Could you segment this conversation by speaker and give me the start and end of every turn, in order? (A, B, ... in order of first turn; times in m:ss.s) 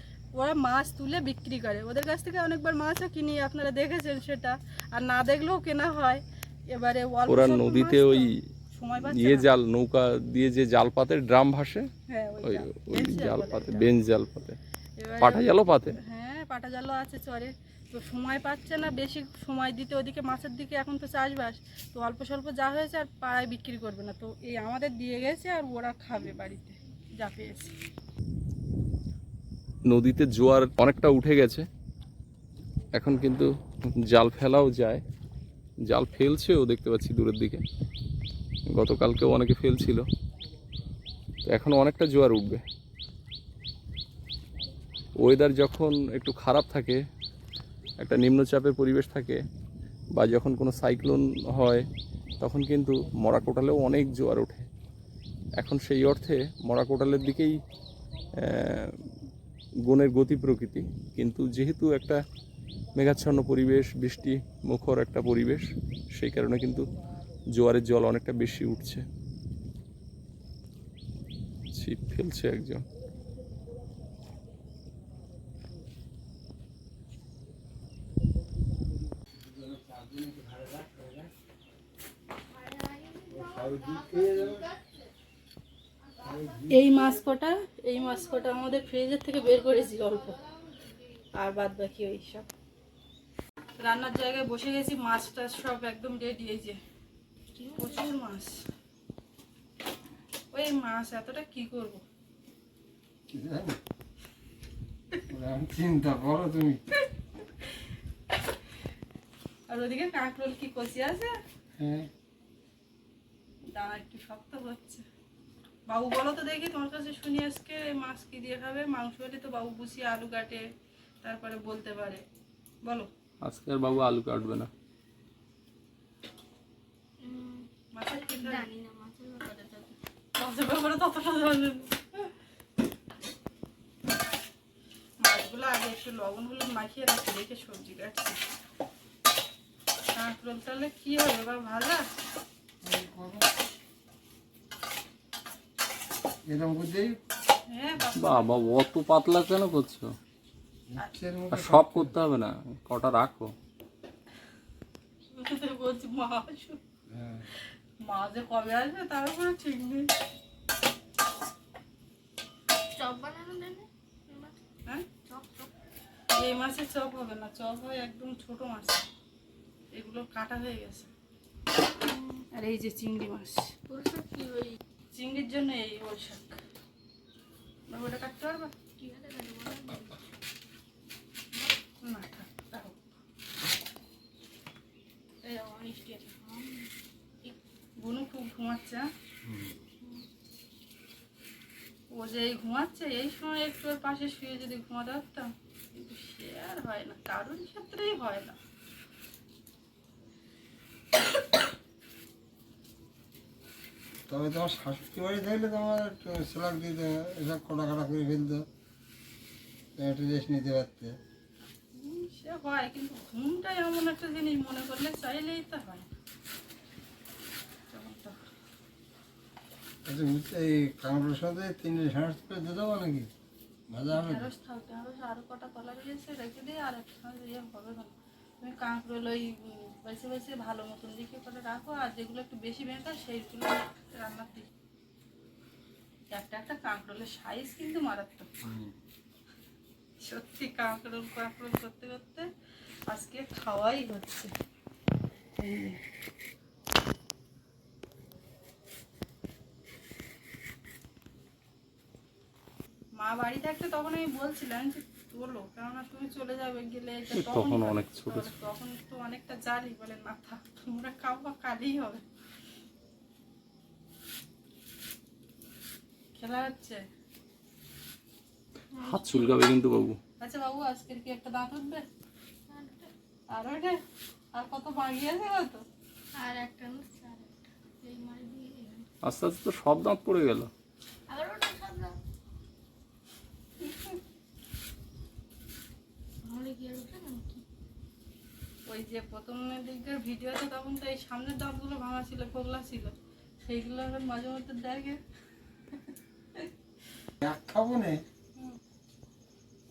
0:00.3-0:09.5 A
0:07.3-0:08.4 B
0:09.0-0:11.9 B
0:12.1-0:13.9 A
0:12.4-0:14.6 B
0:15.0-0:27.7 A
0:15.2-0:16.0 B
0:29.9-0:31.7 B
0:33.0-0:33.5 B
0:34.1-0:35.0 B
0:35.9-0:37.6 B
0:38.7-0:40.0 B
0:41.4-0:42.6 B
0:45.2-0:47.0 B
0:48.0-0:49.4 B
0:50.2-0:51.8 B
0:52.4-0:54.7 B
0:55.6-0:57.6 B
0:58.4-0:59.1 B
0:59.9-1:02.2 B
1:03.0-1:06.9 B
1:07.6-1:09.0 B
1:11.7-1:12.8 B
1:19.3-1:21.3 C
1:22.4-1:25.1 D
1:23.3-1:24.7 C
1:26.2-1:26.6 D
1:26.2-1:26.8 C
1:26.7-1:30.4 A
1:29.4-1:30.9 D
1:31.4-1:32.5 A
1:33.8-1:36.8 A
1:37.6-1:38.2 D
1:37.8-1:38.6 A
1:40.5-1:42.0 A
1:43.3-1:43.8 C
1:45.3-1:46.8 C
1:49.7-1:51.3 A
1:51.8-1:52.1 C
1:53.7-1:55.1 A
1:55.9-2:00.6 A
2:01.2-2:02.2 A
2:03.4-2:04.7 B
2:07.2-2:07.7 D
2:07.9-2:08.7 A
2:08.2-2:10.0 D
2:10.4-2:12.3 A
2:15.2-2:18.4 A
2:20.2-2:22.0 A
2:22.8-2:23.4 C
2:26.5-2:27.2 C
2:27.7-2:28.5 A
2:28.2-2:30.1 B
2:30.9-2:32.2 C
2:31.5-2:33.5 B
2:35.3-2:36.8 A
2:37.1-2:37.5 C
2:38.1-2:40.1 A
2:42.7-2:44.6 D
2:45.2-2:45.7 D
2:46.3-2:49.0 A
2:49.9-2:51.1 A
2:52.0-2:52.5 D
2:52.5-2:53.8 A
2:53.9-2:54.8 D
2:55.1-2:56.6 A
2:57.9-2:58.7 A
2:59.0-3:00.2 D
3:02.0-3:03.0 A
3:05.4-3:06.9 D
3:08.0-3:09.1 A
3:09.4-3:09.8 C
3:10.0-3:10.3 D
3:12.1-3:18.6 A
3:24.3-3:28.7 C
3:30.0-3:31.2 C
3:32.0-3:36.1 A
3:37.9-3:38.4 A
3:40.0-3:43.3 C
3:43.9-3:44.5 C
3:44.1-3:54.7 A
3:56.3-3:58.5 A
3:58.6-3:58.9 C
4:00.2-4:02.5 A
4:03.1-4:04.5 A
4:05.6-4:06.0 A
4:13.2-4:22.2 A
4:17.3-4:18.5 B
4:26.4-4:27.0 A
4:28.9-4:29.6 D
4:29.0-4:30.2 B
4:30.4-4:32.1 A
4:32.7-4:33.1 D
4:33.5-4:34.0 A
4:34.5-4:35.8 A
4:36.3-4:39.1 D
4:39.2-4:40.7 B
4:41.3-4:42.2 D
4:43.9-4:44.2 A
4:46.4-4:47.6 D
4:48.9-4:55.2 A
4:55.9-4:56.7 A
4:57.4-4:58.2 C